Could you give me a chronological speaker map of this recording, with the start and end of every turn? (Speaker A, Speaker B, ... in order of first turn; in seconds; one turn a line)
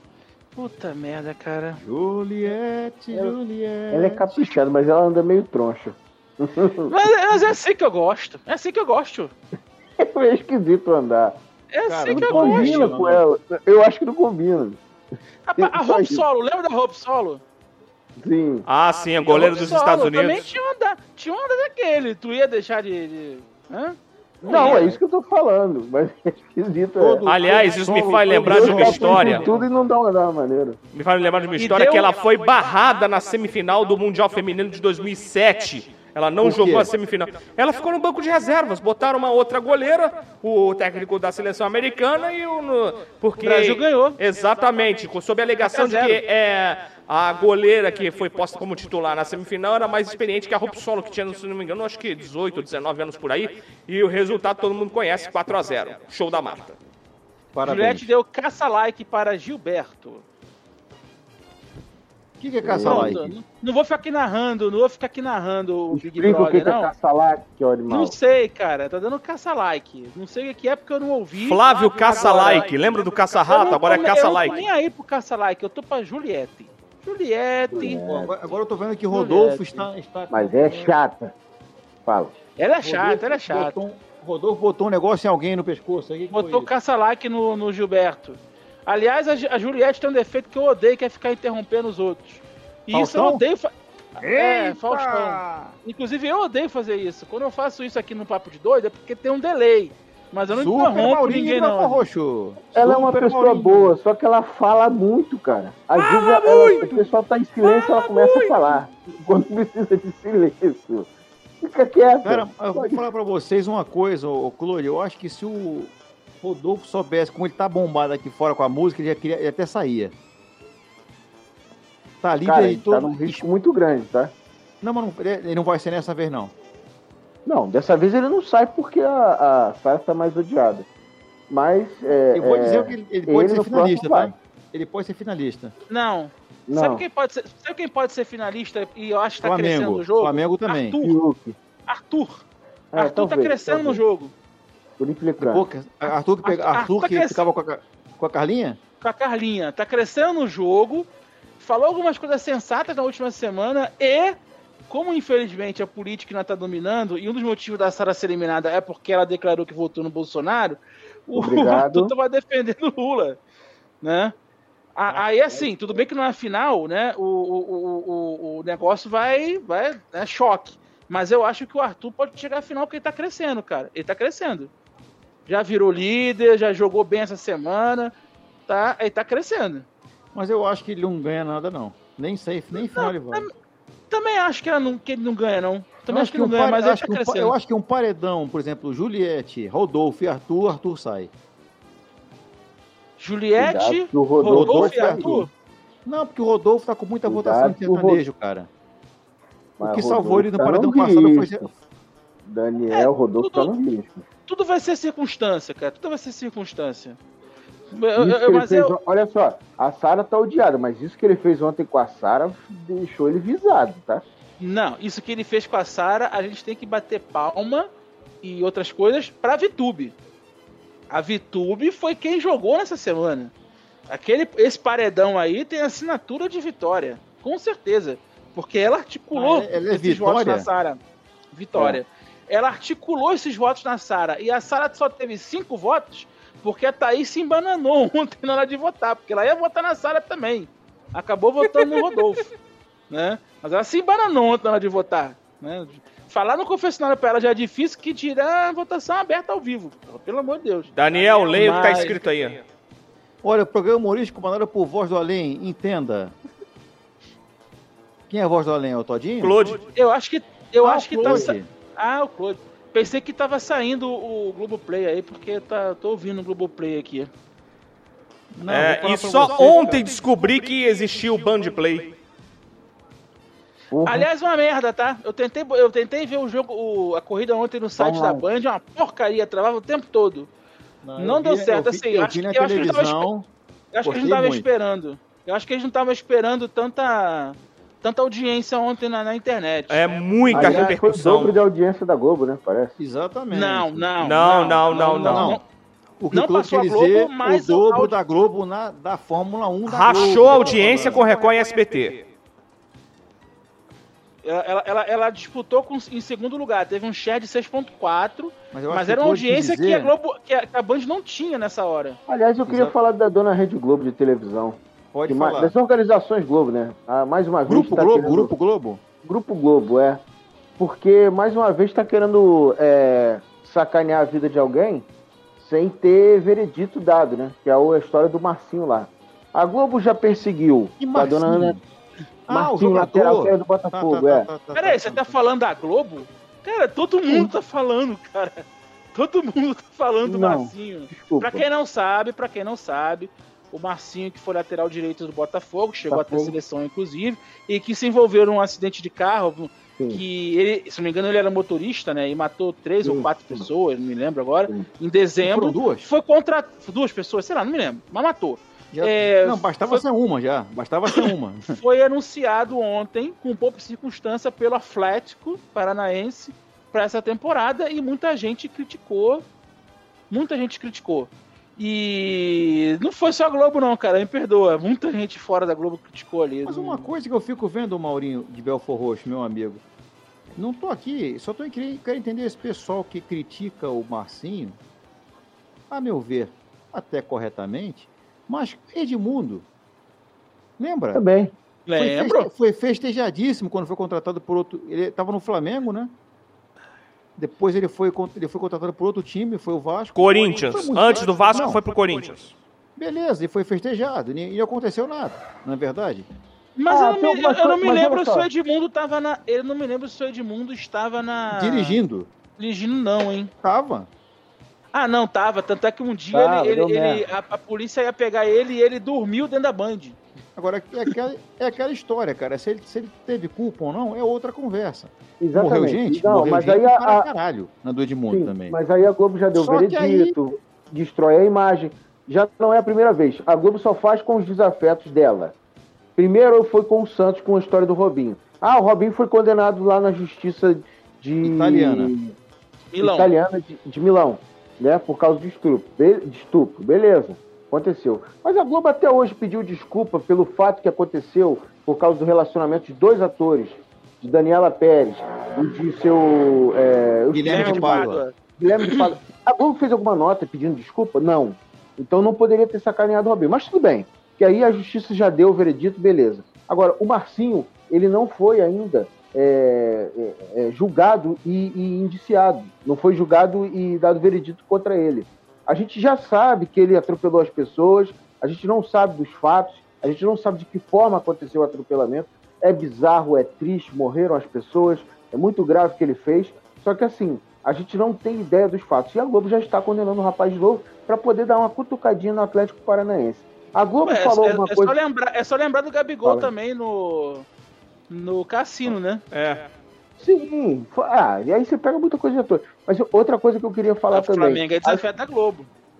Speaker A: 0.6-1.8
Speaker B: 1.8-4.5
Speaker C: 3.9-6.9
Speaker A: 6.9-9.3
Speaker C: 10.0-11.4
Speaker A: 11.7-12.9
Speaker B: 11.9-13.2
Speaker C: 12.1-14.8
Speaker A: 15.4-17.4
Speaker C: 15.6-16.2
Speaker C: 18.2-18.6
Speaker D: 18.7-20.4
Speaker A: 19.2-25.0
Speaker C: 24.4-27.2
Speaker B: 27.0-29.7
Speaker D: 27.2-29.4
Speaker C: 28.4-30.8
Speaker D: 30.9-56.8
Speaker A: 31.6-32.1
Speaker B: 36.4-36.9
Speaker A: 43.4-44.2
Speaker A: 45.6-46.2
Speaker B: 57.5-58.1
Speaker A: 57.6-60.2
Speaker B: 62.4-63.4
Speaker C: 62.6-63.2
Speaker A: 62.8-66.9
Speaker C: 65.9-68.2
Speaker A: 67.9-78.0
Speaker D: 71.4-74.7
Speaker C: 77.7-78.3
Speaker B: 78.0-80.9
Speaker A: 79.1-79.9
Speaker C: 80.3-81.3
Speaker C: 82.0-82.3
Speaker A: 82.6-83.8
Speaker B: 82.8-86.7
Speaker A: 86.3-102.0
Speaker B: 92.9-93.4
Speaker B: 94.2-95.7
Speaker B: 100.5-103.9
Speaker C: 102.7-111.1
Speaker A: 106.2-106.9
Speaker A: 107.8-108.6
Speaker C: 111.6-113.0
Speaker B: 112.2-120.1
Speaker B: 122.2-123.4
Speaker C: 122.4-124.3
Speaker B: 124.8-126.5
Speaker C: 127.4-130.9
Speaker C: 131.5-134.3
Speaker B: 132.3-135.7
Speaker A: 135.9-141.2
Speaker C: 136.7-137.0
Speaker B: 139.4-141.0
Speaker C: 141.0-141.6
Speaker A: 141.9-144.3
Speaker C: 142.9-144.0
Speaker C: 145.0-145.7
Speaker B: 145.4-148.8
Speaker A: 146.4-147.4
Speaker A: 149.0-151.1
Speaker A: 151.6-154.4
Speaker A: 154.9-163.4
Speaker C: 161.3-162.1
Speaker A: 164.0-164.3
Speaker A: 164.9-174.7
Speaker A: 175.5-178.1
Speaker A: 178.7-179.9
Speaker B: 180.3-183.5
Speaker A: 182.7-183.5
Speaker A: 184.1-187.5
Speaker B: 186.1-191.3
Speaker A: 193.2-195.5
Speaker C: 193.6-195.4
Speaker B: 194.4-195.5
Speaker B: 196.0-198.7
Speaker C: 197.2-198.2
Speaker C: 199.8-201.7
Speaker B: 199.8-201.8
Speaker C: 202.4-204.2
Speaker A: 202.9-203.7
Speaker A: 204.5-207.2
Speaker A: 207.9-208.9
Speaker C: 208.2-214.2
Speaker A: 214.6-217.9
Speaker A: 218.4-220.1
Speaker A: 221.1-223.5
Speaker A: 224.1-231.0
Speaker B: 229.3-230.7
Speaker A: 231.5-242.5
Speaker A: 243.1-252.2
Speaker D: 250.9-252.6
Speaker B: 253.4-256.4
Speaker B: 258.3-259.6
Speaker D: 259.4-259.8
Speaker A: 259.9-267.3
Speaker B: 260.8-261.7
Speaker C: 261.2-261.5
Speaker B: 268.5-270.1
Speaker D: 268.7-272.1
Speaker C: 273.9-274.3
Speaker A: 274.0-280.5
Speaker C: 278.0-278.4
Speaker B: 281.0-283.5
Speaker A: 281.2-283.3
Speaker A: 283.9-290.0
Speaker B: 284.0-284.6
Speaker D: 289.9-291.5
Speaker C: 290.5-293.0
Speaker B: 290.5-290.9
Speaker B: 293.0-294.1
Speaker A: 293.5-295.6
Speaker D: 294.2-295.5
Speaker B: 294.9-295.6
Speaker B: 296.2-301.3
Speaker A: 296.3-298.1
Speaker D: 299.8-302.2
Speaker A: 304.4-312.2
Speaker B: 308.7-310.1
Speaker C: 312.3-318.5
Speaker B: 312.6-312.9
Speaker B: 315.1-315.7
Speaker B: 317.7-319.0
Speaker C: 319.2-320.2
Speaker C: 320.8-325.1
Speaker C: 325.6-331.8
Speaker B: 331.0-331.8
Speaker B: 332.5-335.3
Speaker C: 332.5-334.5
Speaker A: 334.7-360.0
Speaker C: 340.2-341.6
Speaker C: 346.1-346.6
Speaker C: 350.0-350.2
Speaker C: 353.0-353.7
Speaker B: 355.4-356.1
Speaker B: 358.9-361.8
Speaker A: 361.1-369.4
Speaker A: 370.3-377.1
Speaker B: 376.6-379.8
Speaker B: 380.6-384.8
Speaker B: 385.9-389.7
Speaker B: 390.8-391.2
Speaker C: 391.1-391.5
Speaker A: 391.9-392.5
Speaker B: 391.9-396.1
Speaker B: 397.4-401.8
Speaker D: 400.1-402.5
Speaker B: 402.9-406.3
Speaker A: 406.8-412.0
Speaker C: 406.9-408.5
Speaker B: 411.5-412.3
Speaker A: 412.6-413.5
Speaker B: 413.6-414.1
Speaker A: 414.9-420.2
Speaker C: 416.3-417.2
Speaker B: 420.6-428.8
Speaker C: 425.4-427.3
Speaker C: 428.3-435.5
Speaker B: 429.5-430.3
Speaker C: 436.1-442.3
Speaker B: 441.4-442.1
Speaker A: 442.9-443.3
Speaker C: 443.0-494.9
Speaker B: 457.3-458.2
Speaker A: 457.4-459.1
Speaker A: 494.0-497.5
Speaker C: 496.2-496.5
Speaker A: 498.1-499.2
Speaker D: 499.3-499.6
Speaker C: 500.2-505.0
Speaker A: 504.1-505.7